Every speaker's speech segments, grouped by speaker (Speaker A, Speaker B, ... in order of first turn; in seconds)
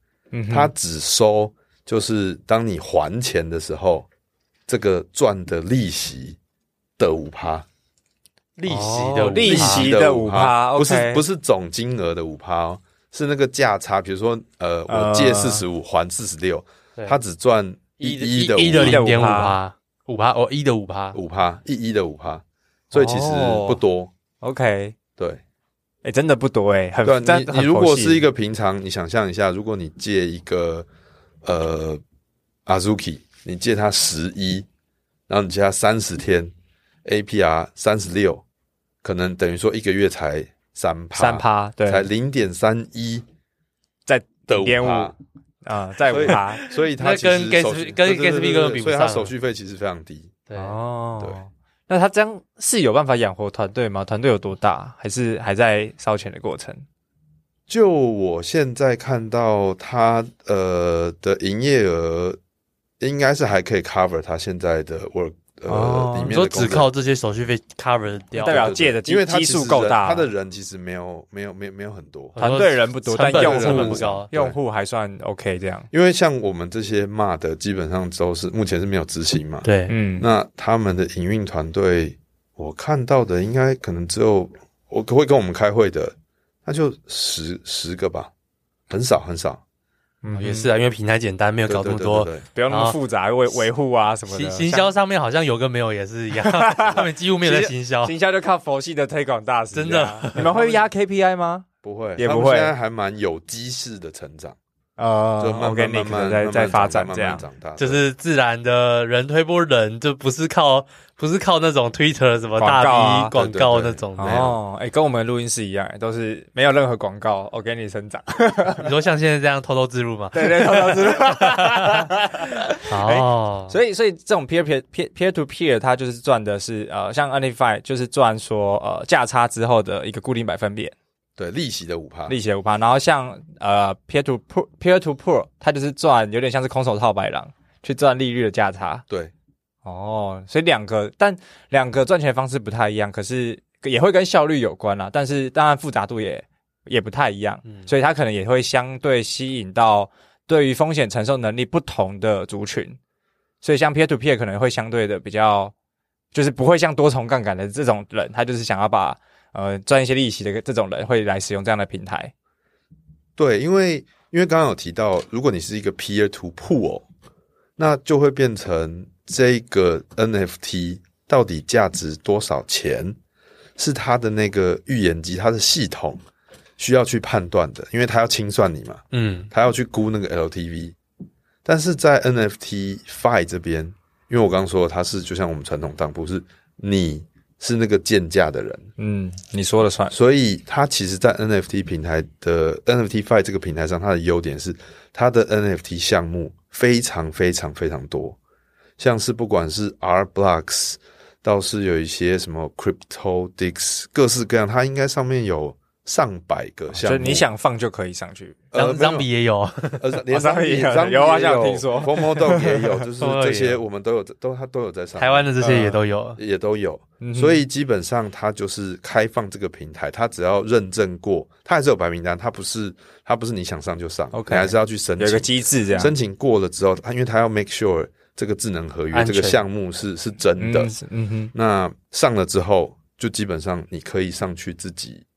Speaker A: 0.3-0.7, 8.7-11.2, 14.9-15.6, 18.7-19.6, 22.9-23.8, 24.4-24.9, 26.0-28.2, 41.1-42.1, 44.0-46.6, 50.5-56.8, 65.7-66.3, 68.3-70.3, 72.4-75.9, 79.9-80.2, 90.2-90.7, 92.5-94.9, 96.3-102.7, 105.0-107.4, 112.6-113.3, 114.2-118.9, 120.3-130.9, 132.3-139.0, 139.8-153.0, 153.6-155.7, 156.3-162.3, 189.0-190.1, 206.9-208.6, 210.3-212.8, 215.6-216.0, 217.2-217.6, 224.3-226.1, 230.6-231.5
Speaker B: 0.5-4.1, 4.7-6.4, 7.0-7.7, 9.4-19.1, 21.1-24.1, 27.0-30.9, 31.4-32.0, 32.6-34.6, 35.3-36.5, 37.0-38.4, 39.0-43.2, 44.5-45.1, 46.1-50.4, 57.7-62.4, 63.0-66.9, 68.4-72.4, 73.3-74.6, 75.9-79.7, 80.2-88.3, 88.9-89.6, 91.7-92.4, 101.8-104.6, 105.4-108.0, 113.3-114.6, 131.4-132.3, 163.4-167.0, 167.8-173.2, 173.8-176.2, 176.8-180.9, 181.6-188.9, 190.1-198.4, 199.0-207.5, 208.7-209.3, 210.0-215.8, 216.4-230.9, 231.5-235.2
Speaker C: 8.6-9.9, 18.0-21.2, 46.5-49.3, 50.5-50.8, 66.3-68.7, 72.3-74.3, 79.6-80.0, 90.3-93.0, 94.3-98.1, 99.7-100.8, 107.8-114.4, 118.8-123.7, 147.6-147.9, 179.1-179.5, 208.7-210.0, 213.2-213.8, 215.2-216.4, 229.1-229.6